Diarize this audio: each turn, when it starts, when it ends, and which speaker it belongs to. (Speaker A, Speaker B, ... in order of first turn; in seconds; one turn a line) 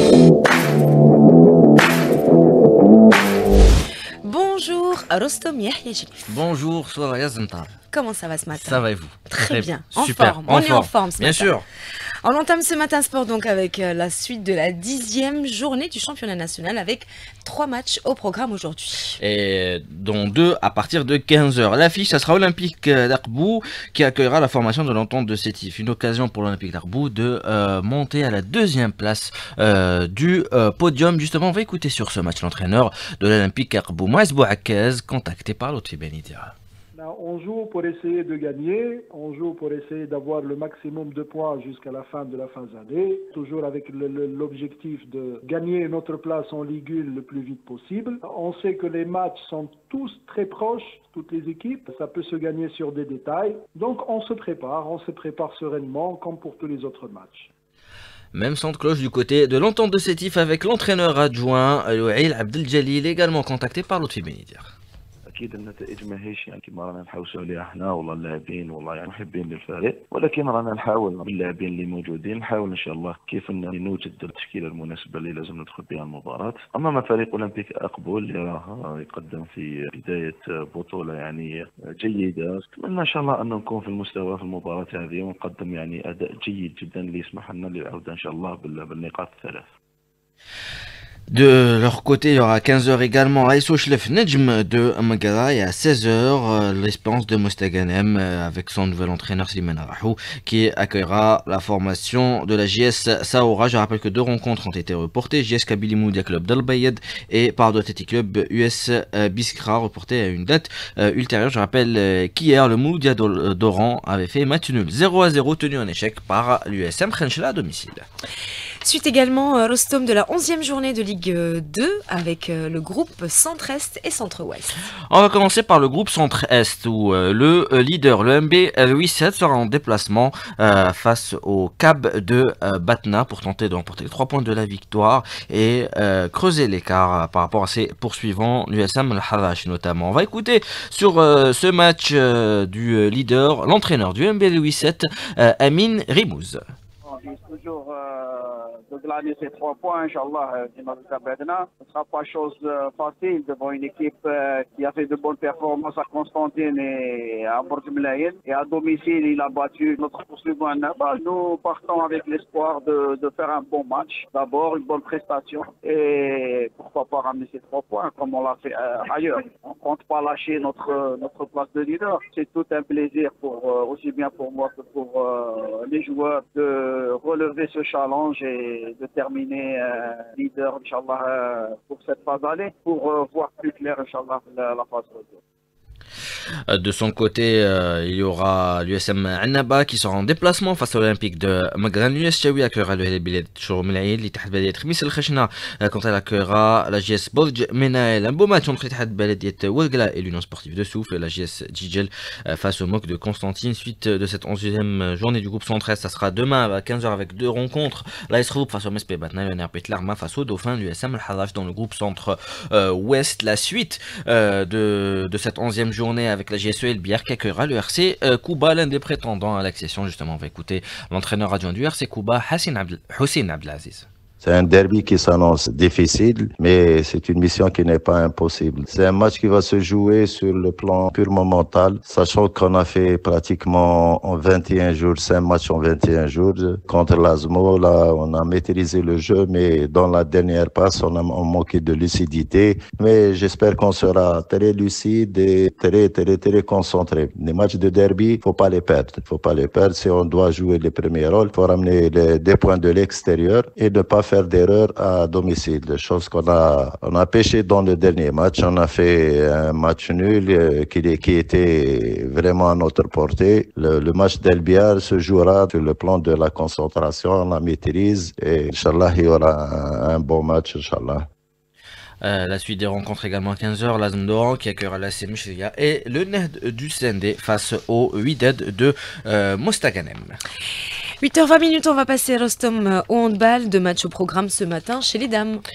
Speaker A: 4.2-6.2
Speaker B: 6.2-7.8
Speaker A: 7.9-11.6
Speaker B: 8.5-11.6
Speaker A: 12.2-19.1
Speaker B: 19.2-36.5
Speaker C: 36.9-57.5
Speaker B: 58.3-64.7
Speaker D: 65.3-89.7
Speaker B: 91.3-118.0
Speaker A: 118.8-124.7
Speaker B: 125.1-146.6
Speaker E: 147.0-185.4
Speaker B: 186.7-224.1
Speaker F: 224.4-271.2
Speaker B: 272.2-280.4
Speaker A: 281.2-285.6